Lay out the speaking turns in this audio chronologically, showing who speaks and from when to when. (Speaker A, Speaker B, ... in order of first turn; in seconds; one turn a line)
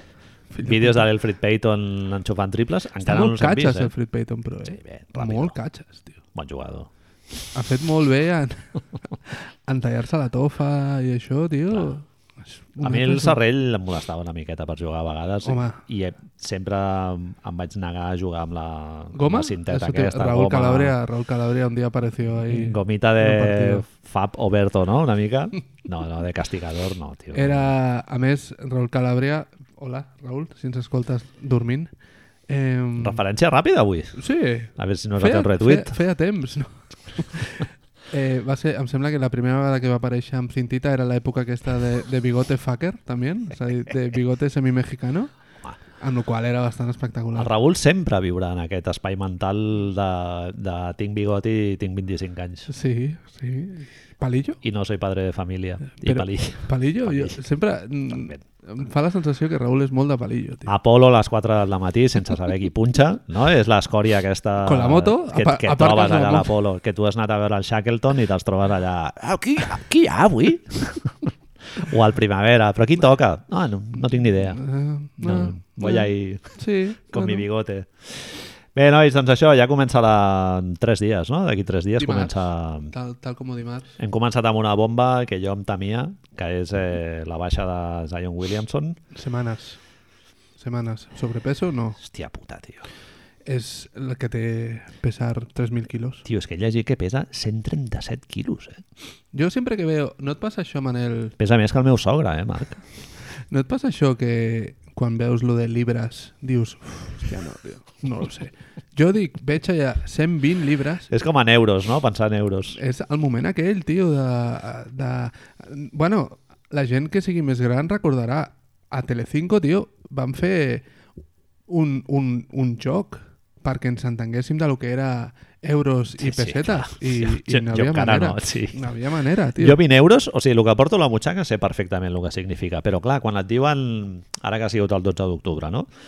Speaker A: 0.5-1.1
Speaker B: 0.6-3.9
Speaker A: 3.0-6.2
Speaker B: 4.7-5.6
Speaker B: 6.3-6.9
Speaker A: 7.5-8.7
Speaker A: 9.2-13.4
Speaker B: 12.8-20.9
Speaker A: 15.4-15.8
Speaker A: 19.1-23.8
Speaker B: 22.4-27.7
Speaker A: 27.3-31.9
Speaker A: 32.5-33.2
Speaker B: 33.0-34.2
Speaker A: 34.2-45.3
Speaker B: 34.8-36.0
Speaker A: 46.0-47.5
Speaker B: 47.4-52.7
Speaker A: 52.7-54.6
Speaker B: 54.6-57.4
Speaker A: 55.9-60.7
Speaker B: 58.1-58.4
Speaker B: 60.7-74.6
Speaker A: 64.6-66.5
Speaker A: 74.5-77.4
Speaker B: 75.2-76.5
Speaker B: 77.1-82.9
Speaker A: 82.0-83.9
Speaker B: 84.0-89.0
Speaker A: 89.1-89.8
Speaker A: 90.6-92.0
Speaker B: 92.0-92.8
Speaker A: 93.5-96.2
Speaker B: 96.2-98.8
Speaker A: 99.3-101.3
Speaker B: 101.4-102.8
Speaker A: 103.5-111.1
Speaker B: 111.1-112.8
Speaker A: 112.7-120.9
Speaker A: 121.7-129.8
Speaker B: 126.2-128.8
Speaker B: 129.6-135.9